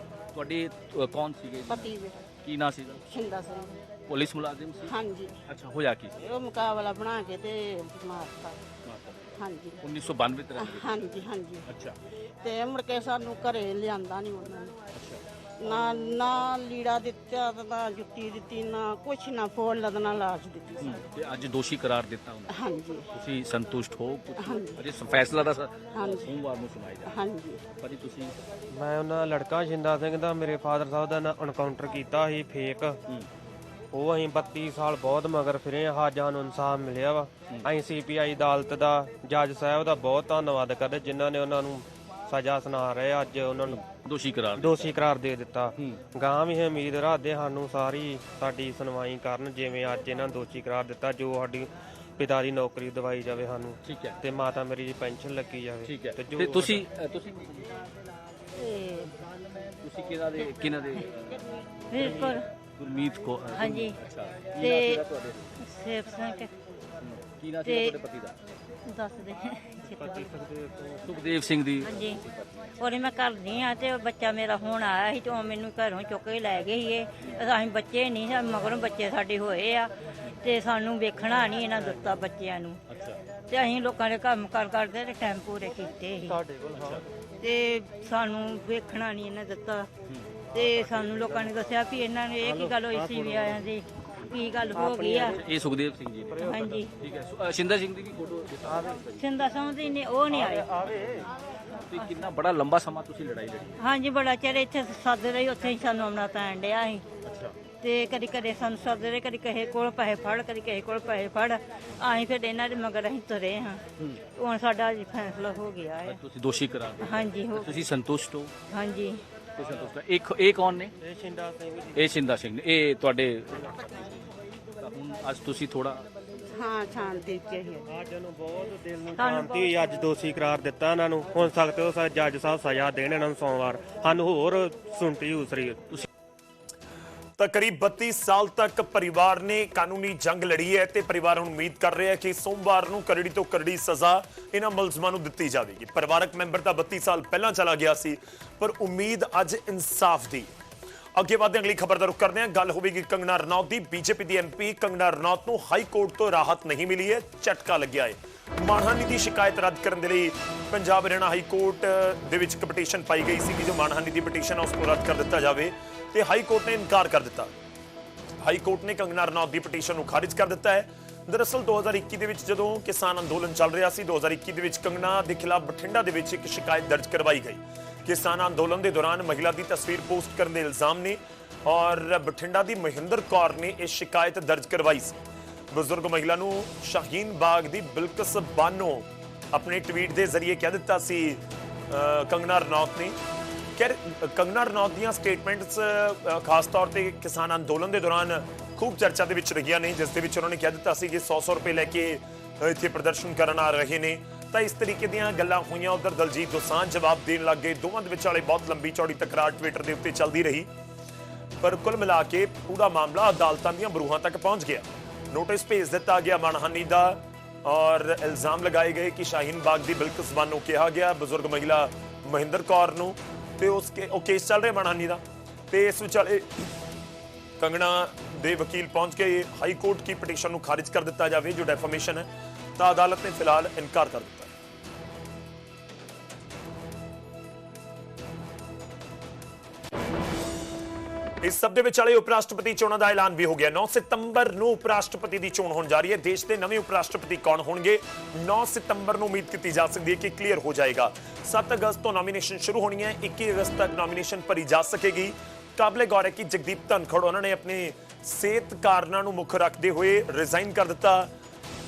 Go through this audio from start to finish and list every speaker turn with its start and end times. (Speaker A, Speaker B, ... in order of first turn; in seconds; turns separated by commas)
Speaker A: 0.3-3.0, Speaker B: 1.7-2.2, Speaker B: 3.0-3.8, Speaker A: 4.1-4.9, Speaker B: 4.8-5.3, Speaker A: 5.5-6.2, Speaker B: 6.2-8.6, Speaker A: 8.9-11.1, Speaker B: 9.3-9.9, Speaker B: 10.5-11.7, Speaker A: 11.7-11.9, Speaker B: 12.4-14.8, Speaker A: 15.0-15.2, Speaker B: 15.6-21.1, Speaker A: 20.8-22.5, Speaker B: 22.5-23.1, Speaker A: 23.2-27.1, Speaker B: 24.4-25.1, Speaker B: 25.9-26.4, Speaker B: 27.0-27.6, Speaker A: 27.8-28.4, Speaker C: 28.7-33.0, Speaker C: 33.9-43.8, Speaker A: 43.7-45.0, Speaker C: 44.6-56.8, Speaker A: 53.8-54.2, Speaker A: 55.9-57.8, Speaker D: 58.6-59.2, Speaker A: 59.8-65.6, Speaker D: 61.9-62.5, Speaker D: 63.5-64.0, Speaker D: 64.6-65.0, Speaker D: 65.6-66.5, Speaker A: 67.0-68.4, Speaker D: 67.6-68.0, Speaker D: 68.8-70.3, Speaker C: 70.0-71.0, Speaker A: 71.0-72.7, Speaker D: 71.8-72.2, Speaker D: 72.8-82.8, Speaker A: 82.9-83.2, Speaker D: 83.5-86.4, Speaker C: 86.5-86.9, Speaker A: 86.7-87.0, Speaker D: 87.4-89.9, Speaker A: 90.1-90.3, Speaker D: 90.5-95.4, Speaker C: 90.8-91.3, Speaker C: 92.5-93.6, Speaker C: 94.8-95.4, Speaker A: 95.3-101.3, Speaker D: 96.4-97.0, Speaker C: 98.7-99.0, Speaker D: 99.0-100.8, Speaker C: 100.4-100.8, Speaker D: 101.7-102.2, Speaker A: 101.9-103.8, Speaker D: 103.8-107.0, Speaker A: 107.2-107.5, Speaker D: 107.7-116.2, Speaker A: 116.0-118.5, Speaker D: 117.0-117.9, Speaker D: 118.7-119.2, Speaker A: 119.6-120.9, Speaker C: 121.0-122.0, Speaker A: 121.9-124.3, Speaker A: 124.8-126.1, Speaker B: 126.5-127.9, Speaker C: 128.0-135.9, Speaker D: 129.1-130.1, Speaker E: 137.4-150.5, Speaker E: 151.2-167.5, Speaker E: 168.4-193.2, Speaker E: 193.8-210.7, Speaker E: 211.6-226.7, Speaker E: 227.6-234.5, Speaker E: 241.4-261.3